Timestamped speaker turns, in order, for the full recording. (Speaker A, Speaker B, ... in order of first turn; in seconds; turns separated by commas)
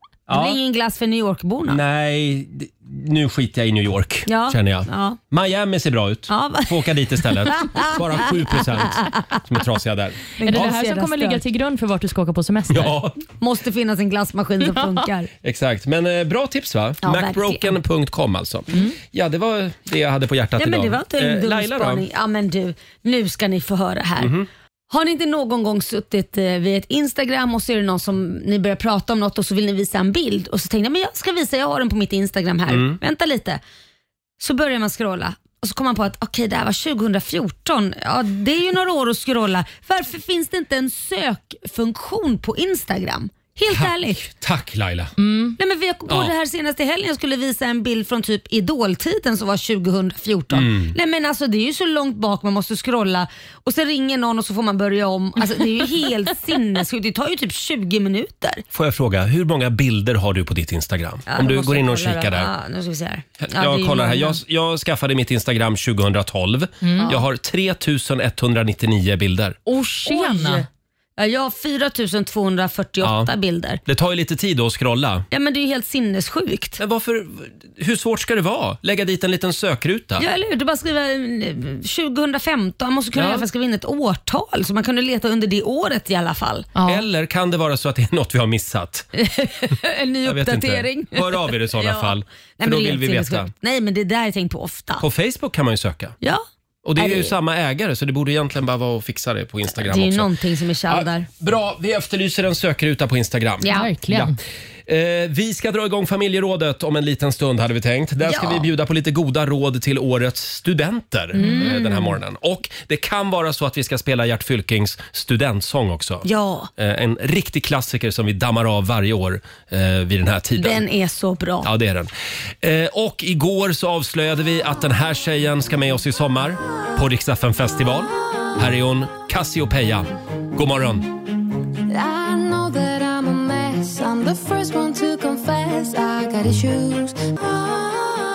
Speaker A: 0.3-0.6, Speaker B: 0.3-1.8, Speaker A: 1.7-10.7, Speaker B: 4.3-5.2, Speaker B: 6.3-9.2, Speaker B: 10.4-11.4, Speaker C: 10.4-12.9, Speaker A: 12.7-13.2, Speaker B: 13.4-15.3, Speaker A: 15.4-22.0, Speaker B: 17.0-17.7, Speaker B: 20.6-24.3, Speaker A: 24.2-24.4, Speaker B: 24.9-33.6, Speaker A: 32.7-33.0, Speaker B: 34.4-44.2, Speaker A: 43.7-45.1, Speaker C: 45.2-45.6, Speaker B: 45.6-58.6, Speaker A: 50.5-50.9, Speaker A: 58.7-62.5, Speaker B: 61.3-64.4, Speaker A: 63.4-69.6, Speaker C: 66.8-67.1, Speaker B: 67.0-67.2, Speaker C: 69.7-70.6, Speaker B: 70.0-70.7, Speaker B: 71.2-73.8, Speaker A: 73.0-73.3, Speaker A: 73.8-75.2, Speaker B: 75.3-76.8, Speaker A: 76.8-80.2, Speaker B: 80.2-86.7, Speaker A: 83.1-83.5, Speaker C: 86.8-87.0, Speaker A: 86.8-89.1, Speaker B: 89.2-95.0, Speaker A: 90.2-93.5, Speaker A: 95.0-96.1, Speaker A: 96.8-100.3, Speaker B: 97.0-97.3, Speaker B: 99.8-101.2, Speaker A: 100.9-104.3, Speaker B: 103.6-103.9, Speaker C: 103.7-104.3, Speaker A: 104.9-116.2, Speaker B: 108.2-108.7, Speaker C: 111.3-111.8, Speaker B: 111.3-112.0, Speaker B: 116.2-116.7, Speaker A: 116.8-120.8, Speaker B: 120.6-121.7, Speaker A: 121.6-122.1, Speaker A: 122.6-131.1, Speaker D: 131.9-137.8